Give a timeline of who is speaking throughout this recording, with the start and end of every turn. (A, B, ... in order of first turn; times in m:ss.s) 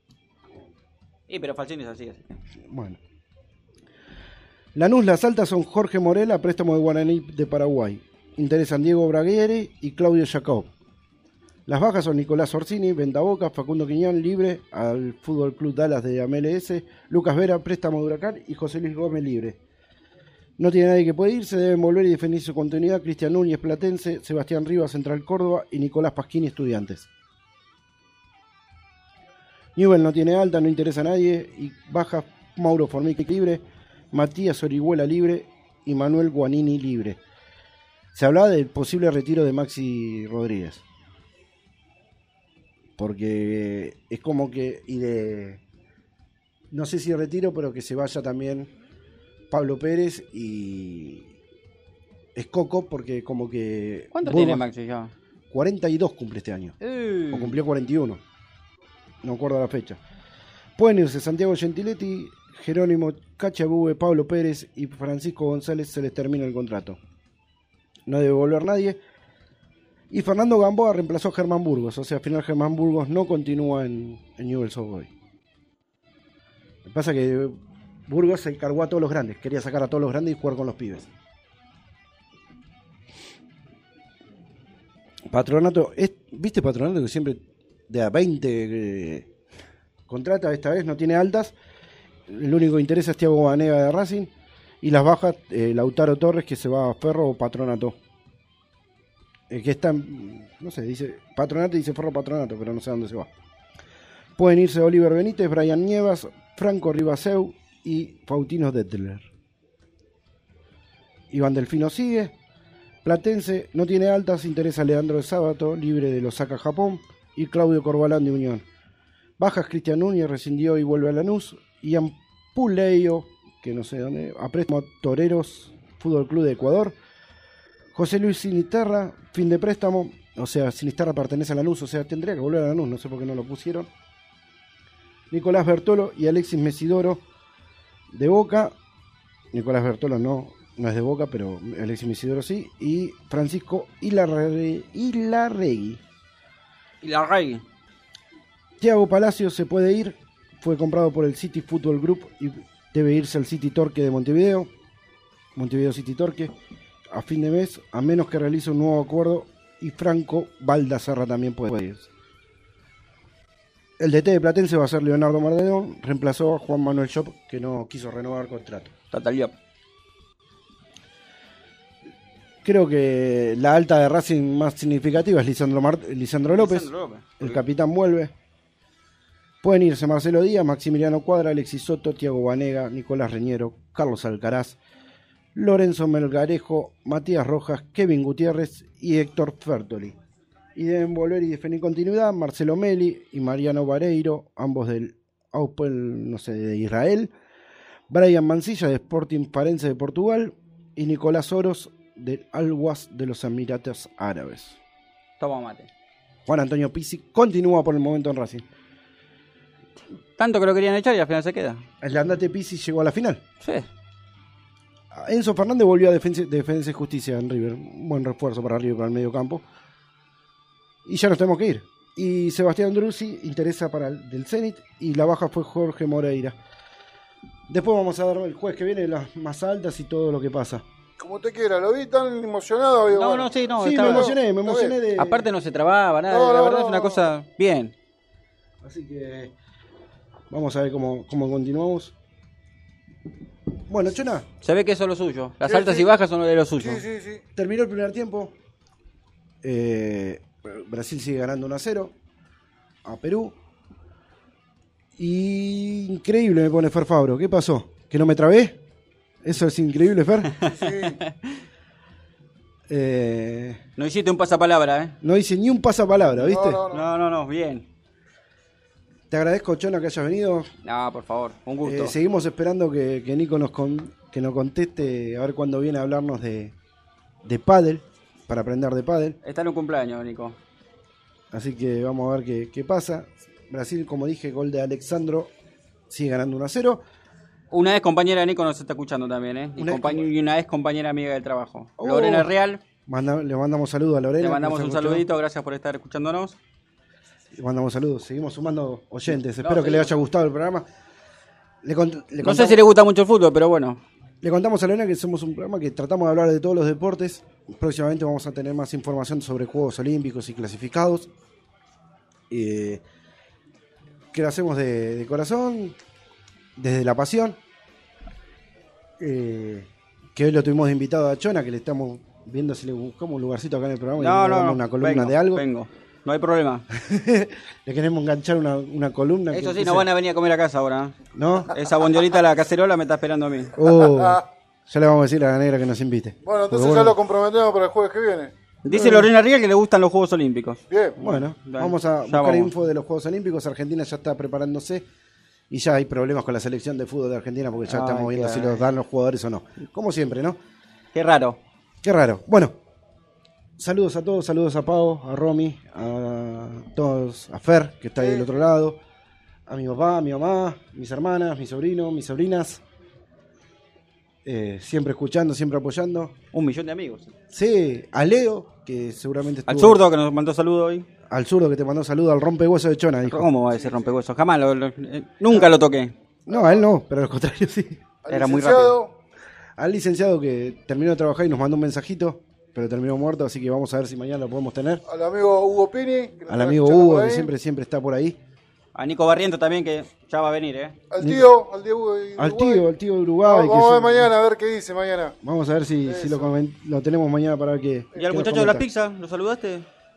0:01.3-0:02.2 A
0:02.7-0:03.0 B
0:04.7-0:10.7 B
0:11.7-0:19.6 B
0:20.6-0:27.1 B
0:29.7-0:37.2 B
0:38.1-0:40.8 B
0:43.0-0:45.6 B
0:46.7-0:48.7 B
0:49.5-0:51.3 B
0:52.3-0:54.6 B
0:54.1-0:55.1 A
0:55.5-0:56.8 B
0:56.8-0:57.6 A
0:57.3-0:58.2 B
0:59.2-1:00.0 B
1:00.8-1:07.0 B
1:08.0-1:09.0 B
1:10.1-1:15.1 B
1:16.8-1:21.1 B
1:25.3-1:29.3 B
1:30.1-1:31.5 B
1:32.3-1:34.3 B
1:34.8-1:38.0 B
1:39.5-1:43.3 B
1:44.4-1:49.3 B
1:51.3-1:52.3 B
1:53.0-1:58.6 B
1:59.4-2:06.9 B
2:07.9-2:13.9 B
2:15.3-2:17.2 B
2:18.1-2:18.7 B
2:19.5-2:26.0 B
2:27.0-2:27.6 A
2:28.8-2:34.7 B
2:35.6-2:36.5 B
2:37.1-2:42.1 B
2:44.0-2:48.9 B
2:49.1-2:49.6 A
2:52.6-2:58.3 B
2:56.5-2:57.6 A
2:59.6-3:04.8 B
3:05.5-3:10.2 B
3:10.7-3:17.3 B
3:18.1-3:24.8 B
3:25.4-3:25.9 A
3:26.4-3:28.6 B
3:30.4-3:31.8 A
3:32.0-3:33.4 B
3:33.6-3:33.9 A
3:35.1-3:39.6 B
3:41.0-3:46.6 B
3:47.7-3:50.8 B
3:51.2-3:54.9 C
3:53.1-3:54.3 A
3:53.8-3:55.4 B
3:55.2-3:57.9 A
3:56.3-3:57.3 C
3:58.8-3:59.5 B
4:00.5-4:02.1 B
4:03.9-4:04.5 B
4:04.6-4:07.0 A
4:05.6-4:06.1 C
4:06.8-4:07.4 C
4:07.5-4:08.5 B
4:09.6-4:12.1 B
4:13.0-4:13.5 B
4:15.2-4:18.8 B
4:19.4-4:20.5 B
4:20.6-4:21.5 A
4:20.7-4:21.2 C
4:22.9-4:23.8 B
4:24.0-4:25.2 A
4:25.2-4:26.8 B
4:26.4-4:27.0 C
4:26.9-4:27.8 A
4:29.3-4:30.7 B
4:30.8-4:32.1 A
4:31.8-4:36.7 B
4:37.4-4:39.4 B
4:39.4-4:40.6 A
4:41.5-4:45.5 B
4:46.1-4:47.0 B
4:47.7-4:52.8 A
4:49.8-4:50.3 B
4:52.0-4:52.5 B
4:53.0-4:55.2 B
4:54.4-4:56.6 A
4:57.6-5:00.8 B
4:59.5-5:00.1 A
5:01.8-5:02.8 B
5:02.4-5:04.0 A
5:04.4-5:11.3 B
5:12.5-5:13.0 B
5:14.3-5:16.0 B
5:16.8-5:17.6 B
5:19.2-5:25.6 B
5:24.2-5:26.8 A
5:26.9-5:30.1 B
5:29.5-5:31.1 A
5:31.3-5:31.7 B
5:31.7-5:33.7 A
5:33.8-5:37.1 B
5:34.0-5:34.4 C
5:36.4-5:38.5 C
5:38.8-5:42.7 A
5:38.8-5:39.3 B
5:40.9-5:41.2 C
5:41.2-5:45.0 B
5:45.7-5:50.6 B
5:47.9-5:48.9 A
5:51.1-5:51.6 A
5:52.0-5:52.8 B
5:53.8-5:59.0 B
5:58.2-5:58.5 C
5:59.7-6:02.8 B
6:04.4-6:06.3 B
6:06.5-6:07.3 A
6:07.5-6:10.0 B
6:09.7-6:11.0 A
6:11.3-6:13.5 B
6:13.3-6:16.1 A
6:13.7-6:14.1 C
6:16.4-6:18.0 B
6:16.5-6:16.8 C
6:18.2-6:19.1 C
6:18.3-6:19.0 A
6:19.8-6:25.0 B
6:25.1-6:27.5 C
6:26.5-6:28.4 B
6:28.9-6:30.9 A
6:31.1-6:32.8 C
6:31.2-6:31.5 B
6:32.4-6:34.3 B
6:33.4-6:35.4 C
6:35.4-6:38.8 B
6:36.1-6:36.5 C
6:38.2-6:39.9 A